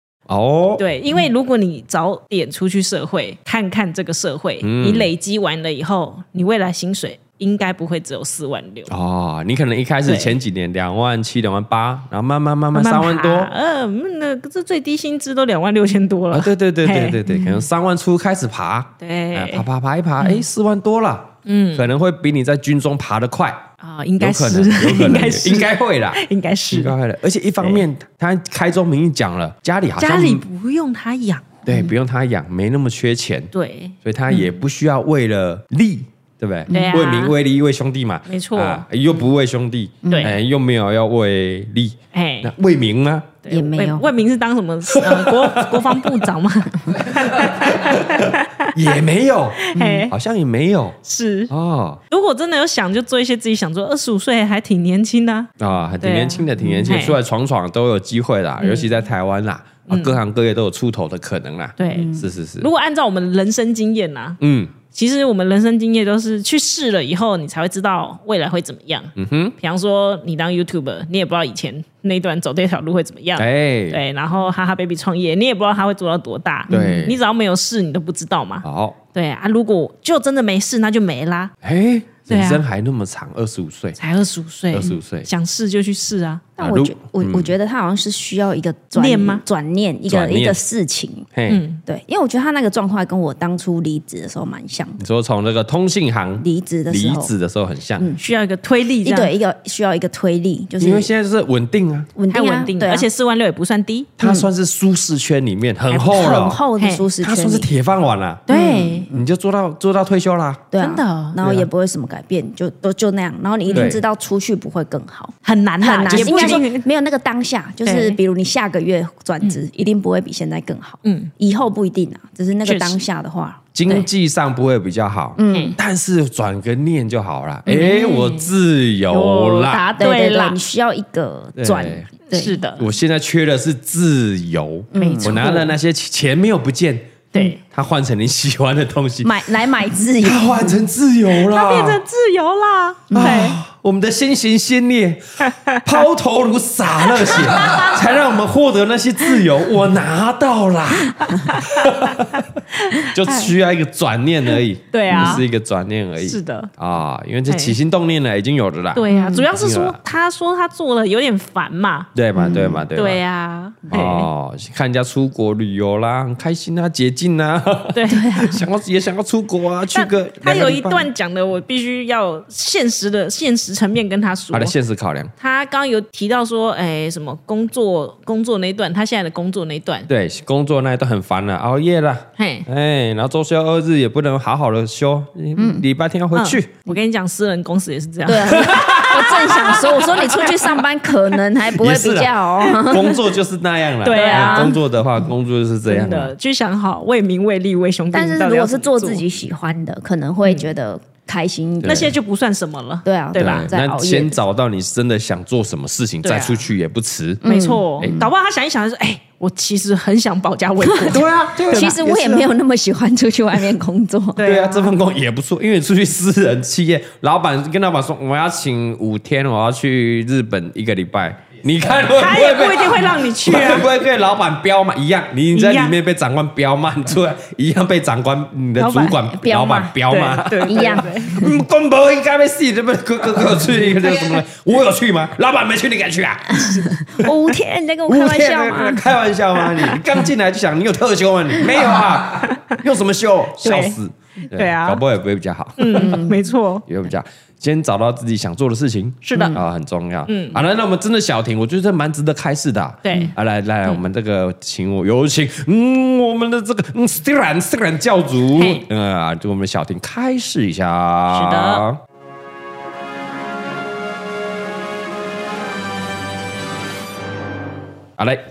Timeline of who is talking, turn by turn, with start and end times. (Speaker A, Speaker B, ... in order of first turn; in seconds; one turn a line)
Speaker A: 0.3-0.8
Speaker B: 0.8-8.9
Speaker A: 4.6-5.1
Speaker A: 8.9-13.5
Speaker B: 10.0-10.3
Speaker B: 12.7-17.2
Speaker A: 16.3-23.6
Speaker B: 19.0-19.6
Speaker B: 21.4-21.9
Speaker B: 23.8-26.9
Speaker A: 24.2-30.4
Speaker B: 30.0-31.5
Speaker A: 31.6-33.5
Speaker B: 33.5-34.5
Speaker A: 34.0-43.4
Speaker C: 36.7-37.0
Speaker B: 36.7-37.3
Speaker B: 38.3-38.8
Speaker C: 40.0-40.3
Speaker B: 40.0-40.3
Speaker B: 42.1-42.5
Speaker B: 43.4-48.9
Speaker C: 43.5-44.1
Speaker A: 44.9-46.0
Speaker A: 47.0-51.0
Speaker B: 49.6-50.1
Speaker C: 49.8-50.1
Speaker B: 51.0-51.5
Speaker A: 51.5-52.0
Speaker B: 52.1-57.2
Speaker A: 55.6-62.7
Speaker C: 56.6-57.0
Speaker B: 58.6-58.9
Speaker B: 59.9-60.2
Speaker B: 61.8-64.4
Speaker C: 61.9-62.2
Speaker A: 64.4-64.7
Speaker B: 64.9-81.5
Speaker A: 69.2-69.5
Speaker A: 73.4-74.0
Speaker C: 76.7-77.1
Speaker A: 76.7-77.2
Speaker A: 78.6-79.0
Speaker A: 81.6-84.0
Speaker B: 82.3-82.6
Speaker B: 84.0-86.5
Speaker A: 84.7-85.3
Speaker C: 86.6-91.3
Speaker A: 86.6-87.5
Speaker B: 88.9-89.4
Speaker A: 90.1-90.6
Speaker A: 91.3-91.6
Speaker B: 91.5-91.8
Speaker C: 91.8-95.0
Speaker A: 95.0-98.1
Speaker C: 96.4-97.3
Speaker B: 98.2-99.3
Speaker C: 99.0-101.1
Speaker A: 100.8-102.1
Speaker C: 102.1-103.1
Speaker B: 102.3-104.1
Speaker A: 104.2-106.6
Speaker C: 104.2-104.5
Speaker C: 106.0-107.7
Speaker B: 106.8-107.1
Speaker A: 107.2-108.5
Speaker B: 108.5-109.1
Speaker C: 108.5-109.2
Speaker A: 109.1-110.7
Speaker C: 110.7-123.6
Speaker B: 110.8-111.4
Speaker A: 111.4-111.7
Speaker B: 113.7-113.9
Speaker A: 113.7-114.0
Speaker B: 115.4-116.9
Speaker A: 116.1-116.6
Speaker B: 117.8-118.2
Speaker B: 121.0-121.3
Speaker B: 122.6-123.0
Speaker A: 123.7-129.9
Speaker C: 125.4-125.8
Speaker B: 125.5-125.8
Speaker B: 127.7-128.5
Speaker B: 129.1-130.6
Speaker C: 129.8-132.6
Speaker A: 131.6-132.1
Speaker B: 132.3-132.9
Speaker A: 132.8-137.2
Speaker C: 134.9-135.5
Speaker B: 134.9-135.7
Speaker B: 137.3-137.6
Speaker A: 137.7-139.4
Speaker C: 139.2-140.7
Speaker A: 140.2-142.0
Speaker B: 141.4-143.6
Speaker C: 143.1-143.5
Speaker A: 143.1-152.4
Speaker B: 145.4-145.9
Speaker B: 147.2-147.9
Speaker B: 151.2-151.9
Speaker B: 152.7-153.5
Speaker A: 153.0-160.0
Speaker B: 154.9-155.4
Speaker C: 155.1-155.4
Speaker B: 156.2-156.7
Speaker B: 157.5-157.8
Speaker B: 158.9-162.1
Speaker C: 159.1-159.5
Speaker A: 162.1-163.2
Speaker C: 162.3-162.8
Speaker B: 162.9-164.3
Speaker A: 163.9-171.1
Speaker B: 167.9-168.6
Speaker B: 169.9-174.7
Speaker A: 174.5-175.3
Speaker B: 175.4-180.1
Speaker A: 180.1-186.7
Speaker B: 182.4-182.7
Speaker C: 185.6-185.8
Speaker B: 186.3-190.8
Speaker C: 188.2-193.2
Speaker A: 188.5-189.6
Speaker A: 191.7-196.3
Speaker B: 194.0-194.8
Speaker C: 194.1-194.8
Speaker B: 195.9-199.2
Speaker C: 198.1-202.1
Speaker A: 201.8-202.1
Speaker B: 201.8-203.7
Speaker C: 203.0-204.4
Speaker A: 203.4-207.4
Speaker B: 206.2-206.7
Speaker C: 207.4-208.3
Speaker B: 207.4-212.0
Speaker C: 210.8-214.4
Speaker A: 211.1-212.5
Speaker B: 214.3-215.0
Speaker A: 214.4-236.9
Speaker B: 222.1-223.9
Speaker B: 225.5-226.0
Speaker B: 228.8-229.2
Speaker C: 229.3-229.9
Speaker B: 230.1-231.5
Speaker C: 230.6-231.5
Speaker B: 236.5-238.8
Speaker C: 236.6-239.0
Speaker A: 238.1-246.2
Speaker B: 242.4-242.8
Speaker B: 243.6-244.0
Speaker B: 244.5-245.0
Speaker B: 245.8-246.8
Speaker C: 245.9-246.4
Speaker A: 246.8-262.0
Speaker B: 249.2-249.6
Speaker B: 250.3-250.6
Speaker B: 253.0-253.3
Speaker B: 258.6-258.8
Speaker B: 261.3-261.8